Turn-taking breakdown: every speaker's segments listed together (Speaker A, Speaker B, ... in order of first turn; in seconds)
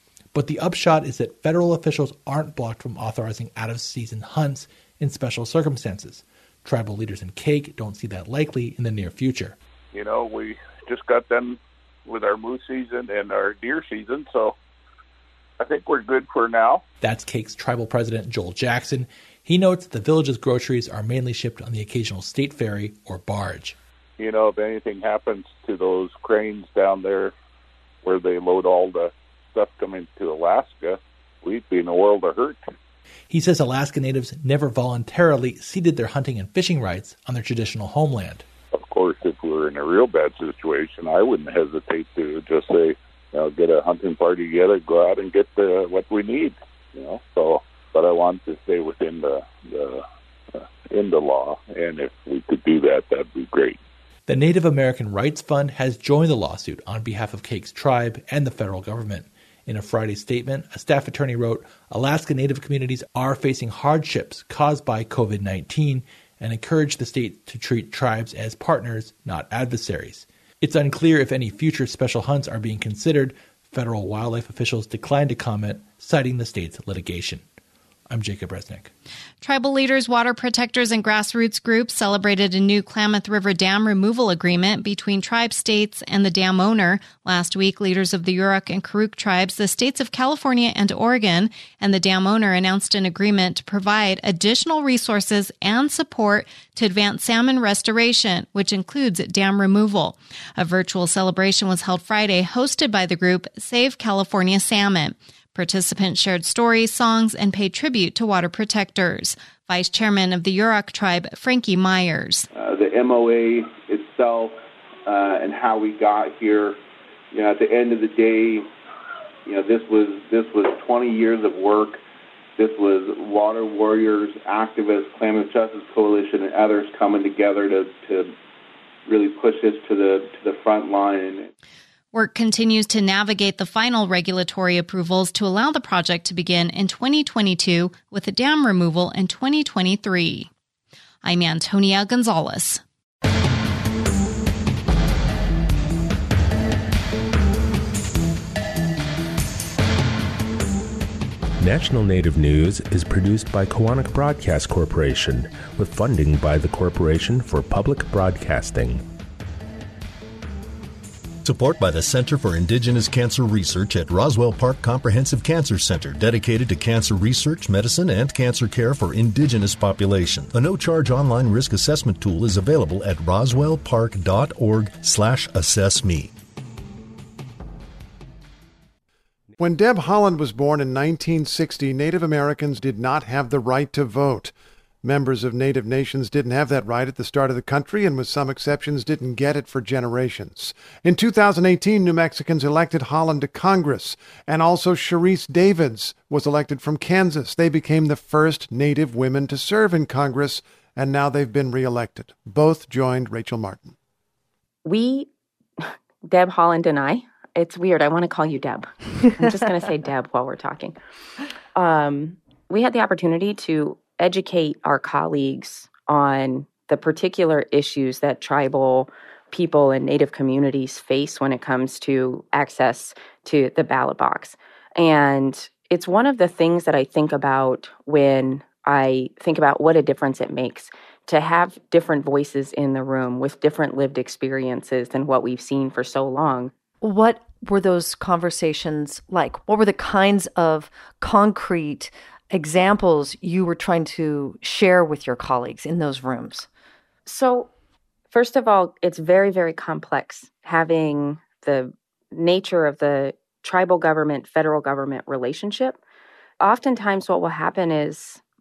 Speaker A: 0.3-9.6, 17.0-23.8, 33.3-38.5, 54.3-77.4, 78.1-78.9
Speaker B: 9.9-14.6, 15.6-16.8, 24.2-27.3, 28.0-32.6, 38.7-50.0, 50.5-53.8
Speaker C: 79.4-112.5, 132.1-140.5, 141.2-142.8
Speaker D: 112.5-116.8, 117.3-118.7, 119.5-122.0, 122.6-128.3, 129.1-131.5
Speaker E: 151.6-159.0
Speaker F: 161.4-176.3
Speaker G: 179.6-184.5, 185.0-203.9
Speaker H: 204.8-205.3, 206.2-210.9, 211.7-236.7, 247.2-247.7, 248.3-256.0, 256.6-258.4
Speaker I: 237.0-246.7